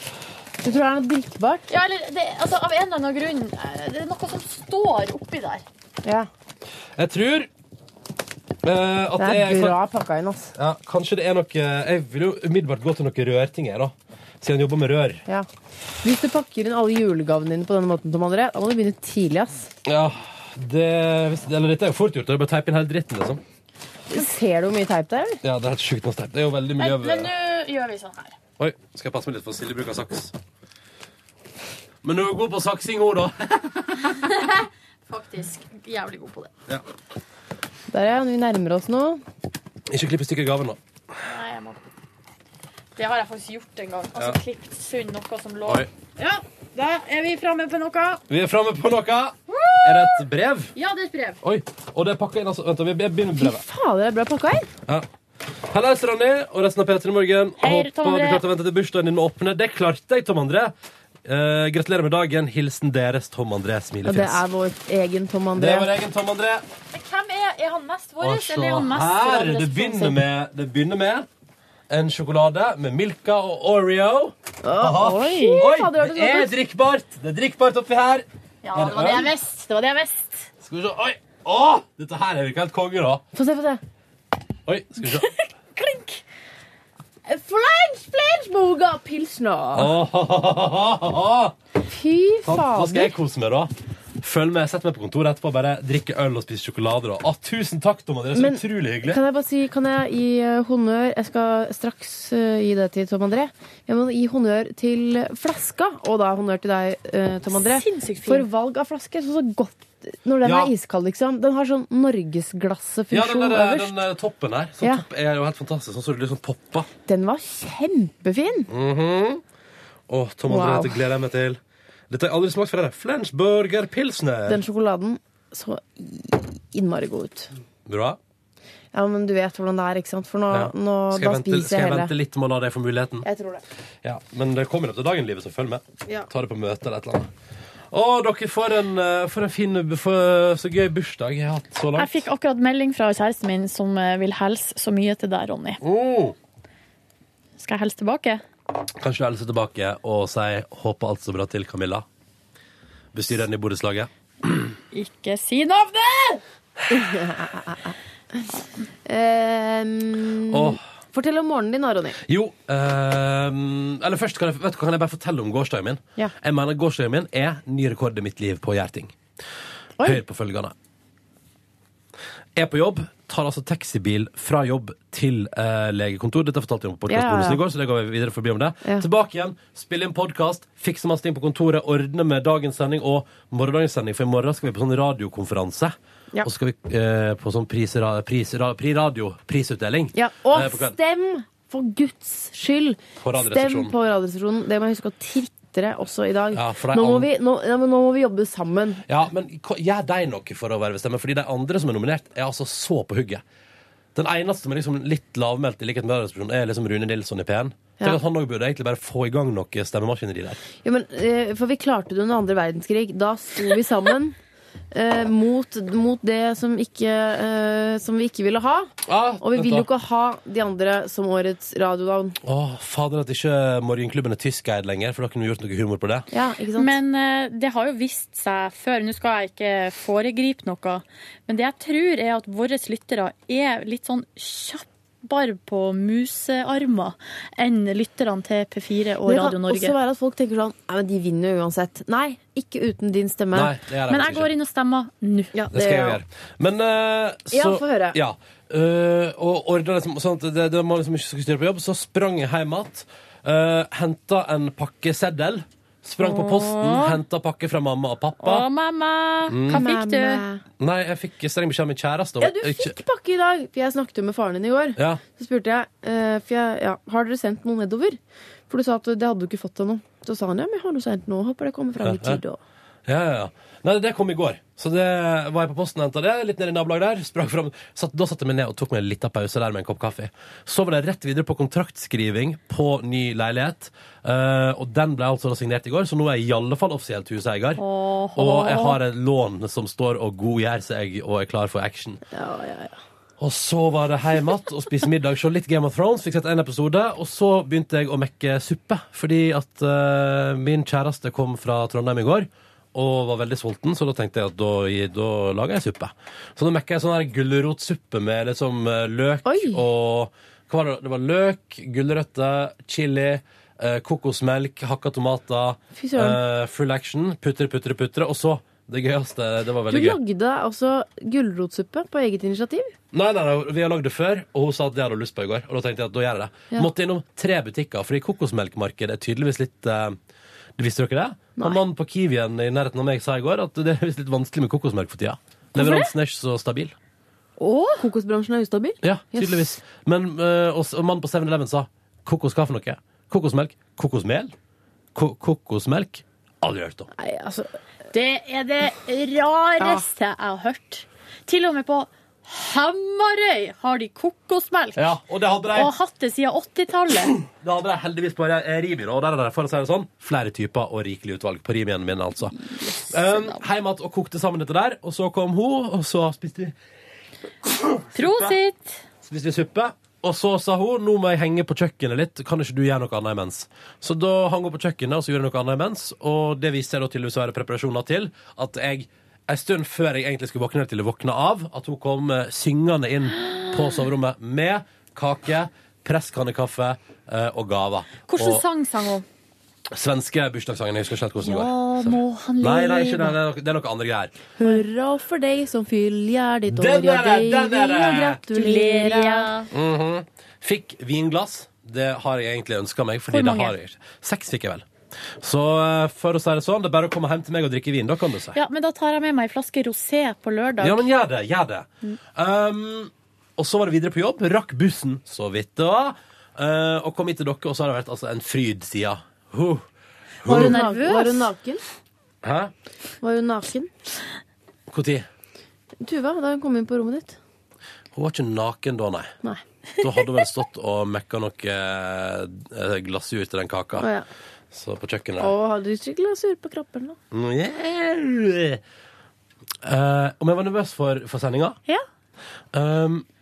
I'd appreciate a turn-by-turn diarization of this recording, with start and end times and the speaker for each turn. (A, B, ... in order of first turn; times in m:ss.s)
0:00.6-0:01.7 A
0:01.7-0:05.6 B
0:06.0-0:06.3 A
0:07.0-0:07.5 C
0:08.6-0:09.8 C
0:09.2-0:10.5 A
0:10.6-0:15.2 C
0:16.0-0:19.7 A
0:19.8-0:23.4 C
0:24.1-0:25.4 A
0:25.4-0:27.3 C
0:26.8-0:28.4 B
0:28.6-0:30.3 C
0:32.0-0:34.2 C
0:34.1-0:36.5 B
0:37.9-0:39.2 A
0:39.9-0:40.8 C
0:41.2-0:41.9 B
0:43.0-0:48.2 B
0:48.3-0:50.7 C
0:49.5-0:50.2 B
0:50.8-0:51.4 B
0:51.4-0:53.6 C
0:53.4-0:54.7 A
0:55.7-1:00.7 C
0:57.6-0:58.4 B
1:01.2-1:04.4 C
1:04.0-1:05.9 A
1:05.6-1:06.6 C
1:06.9-1:10.2 B
1:08.2-1:11.3 C
1:11.9-1:19.3 C
1:14.6-1:16.5 A
1:15.3-1:15.6 B
1:18.6-1:20.5 B
1:20.6-1:23.2 C
1:23.3-1:23.8 A
1:24.7-1:25.3 C
1:25.0-1:26.2 B
1:27.3-1:29.9 A
1:29.7-1:31.6 C
1:31.8-1:33.1 A
1:32.4-1:39.2 C
1:38.3-1:54.0 A
1:47.5-1:48.5 B
1:50.4-1:50.7 C
1:53.1-1:56.9 C
1:57.1-1:58.7 A
1:58.7-1:59.4 C
2:00.1-2:04.6 C
2:00.5-2:01.0 A
2:04.5-2:07.5 A
2:07.9-2:08.2 C
2:08.9-2:12.1 A
2:10.5-2:13.3 C
2:13.2-2:13.6 A
2:14.0-2:17.3 C
2:17.9-2:22.3 C
2:22.0-2:25.8 B
2:25.8-2:26.4 C
2:27.6-2:28.4 B
2:29.0-2:32.0 C
2:33.1-2:34.8 C
2:34.9-2:36.4 B
2:36.9-2:38.0 A
2:39.0-2:42.2 A
2:40.5-2:40.8 C
2:42.2-2:49.2 C
2:50.0-2:50.7 C
2:52.6-3:11.0 C
2:57.1-2:57.6 A
3:10.1-3:19.0 A
3:13.2-3:13.9 C
3:16.5-3:17.3 C
3:19.1-3:23.4 C
3:24.1-3:30.6 C
3:30.8-3:34.4 A
3:34.9-3:42.4 A
3:39.1-3:39.9 C
3:42.4-3:46.3 C
3:46.3-3:47.0 A
3:46.8-3:59.9 B
3:59.2-4:03.7 A
4:03.5-4:04.5 C
4:04.1-4:05.5 B
4:05.5-4:06.2 A
4:05.7-4:18.7 C
4:07.5-4:08.2 A
4:16.2-4:17.2 B
4:18.4-4:20.4 B
4:19.5-4:19.9 C
4:19.7-4:20.6 A
4:20.8-4:23.0 C
4:22.4-4:32.6 A
4:25.0-4:25.2 C
4:32.0-4:32.4 C
4:33.1-4:47.8 C
4:47.8-4:49.0 B
4:48.4-4:52.2 C
4:52.3-4:53.0 A
4:53.4-5:20.2 C
5:09.4-5:09.8 A
5:16.0-5:16.4 A
5:19.9-5:22.9 A
5:23.1-5:30.2 C
5:30.8-5:37.0 C
5:35.8-5:36.1 B
5:37.6-5:38.0 B
5:38.0-5:39.8 A
5:39.0-5:44.5 C
5:45.1-5:47.1 C
5:47.1-5:47.7 A
5:48.1-5:55.1 B
5:55.0-5:55.9 C
5:55.7-5:57.4 B
5:57.4-6:06.7 C
6:02.6-6:03.6 B
6:07.8-6:08.6 C
6:08.1-6:09.0 B
6:09.2-6:28.6 C
6:23.4-6:23.7 B
6:28.3-6:29.2 B
6:29.9-6:34.3 C
6:31.4-6:33.4 B
6:34.6-6:39.5 A
6:36.7-6:38.4 C
6:38.5-6:39.7 B
6:39.7-6:48.6 C
6:43.3-6:43.7 B
6:48.5-6:51.0 B
6:50.8-6:59.8 C
7:00.4-7:00.8 C
7:00.4-7:01.8 A
7:00.5-7:01.5 B
7:02.4-7:02.7 C
7:03.2-7:03.9 A
7:04.9-7:05.3 C
7:06.0-7:07.4 A
7:08.1-7:09.4 C
7:10.0-7:14.1 C
7:14.0-7:14.3 A
7:14.7-7:15.5 C
7:15.4-7:17.2 A
7:17.3-7:18.8 C
7:19.8-7:21.8 C
7:22.7-7:23.3 C